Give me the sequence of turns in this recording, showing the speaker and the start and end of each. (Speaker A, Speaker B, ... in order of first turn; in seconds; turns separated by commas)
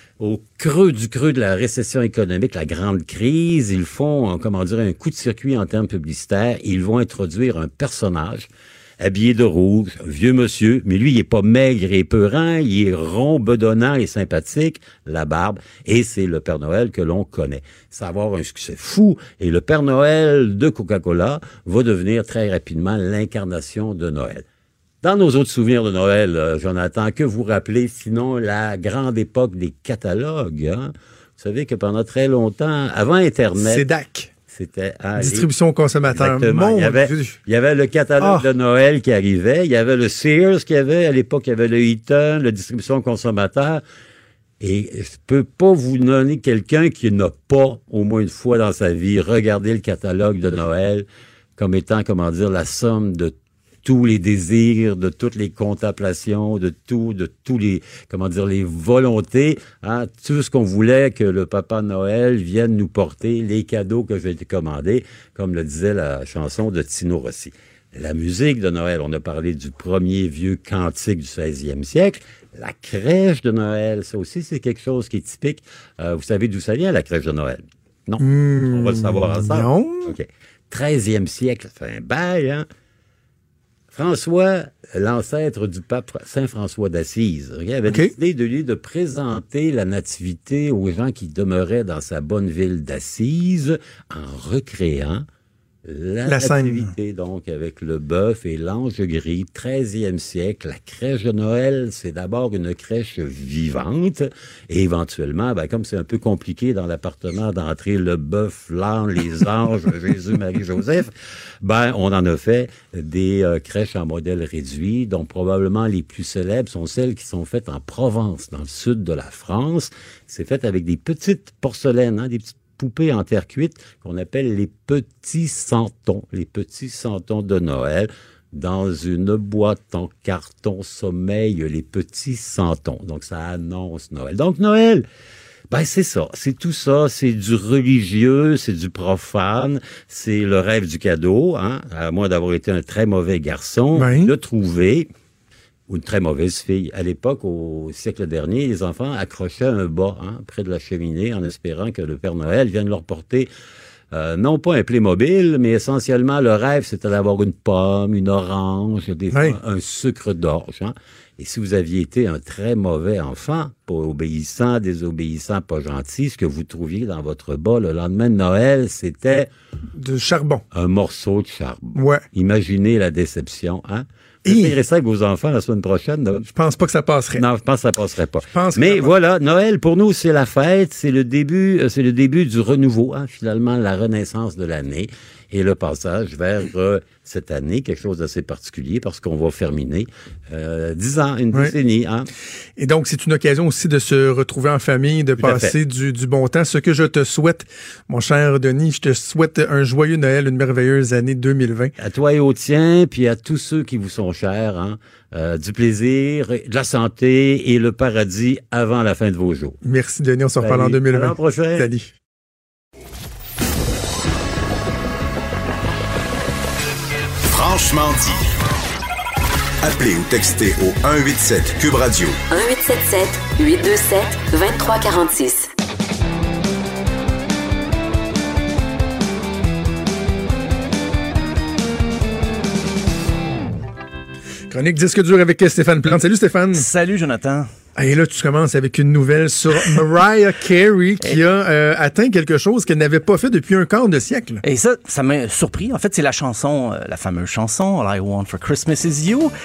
Speaker A: 0.2-8.5, Speaker A: 9.0-24.4, Speaker A: 25.0-33.9, Speaker B: 33.5-34.3, Speaker A: 34.5-35.5, Speaker B: 35.2-37.4, Speaker A: 36.0-43.8, Speaker B: 38.2-38.5, Speaker A: 44.6-51.0, Speaker A: 51.6-82.7, Speaker B: 78.2-80.1, Speaker A: 83.9-95.2, Speaker B: 87.9-88.1, Speaker A: 95.8-111.1, Speaker B: 96.3-96.9, Speaker A: 111.6-135.0, Speaker A: 135.7-145.1, Speaker B: 143.9-144.3, Speaker A: 145.9-153.5, Speaker A: 154.1-169.5, Speaker B: 159.3-159.6, Speaker B: 169.9-170.6, Speaker A: 170.7-176.4, Speaker B: 171.9-172.2, Speaker B: 174.4-174.8, Speaker B: 176.5-177.4, Speaker A: 177.3-192.3, Speaker B: 178.5-179.1, Speaker B: 192.8-201.9, Speaker A: 195.4-195.7, Speaker A: 202.0-209.8, Speaker B: 209.8-212.1, Speaker A: 210.6-211.9, Speaker C: 217.4-218.4, Speaker C: 219.8-222.4, Speaker D: 222.5-225.7, Speaker B: 234.7-236.8, Speaker E: 236.7-237.7, Speaker B: 237.9-244.6, Speaker E: 244.6-249.5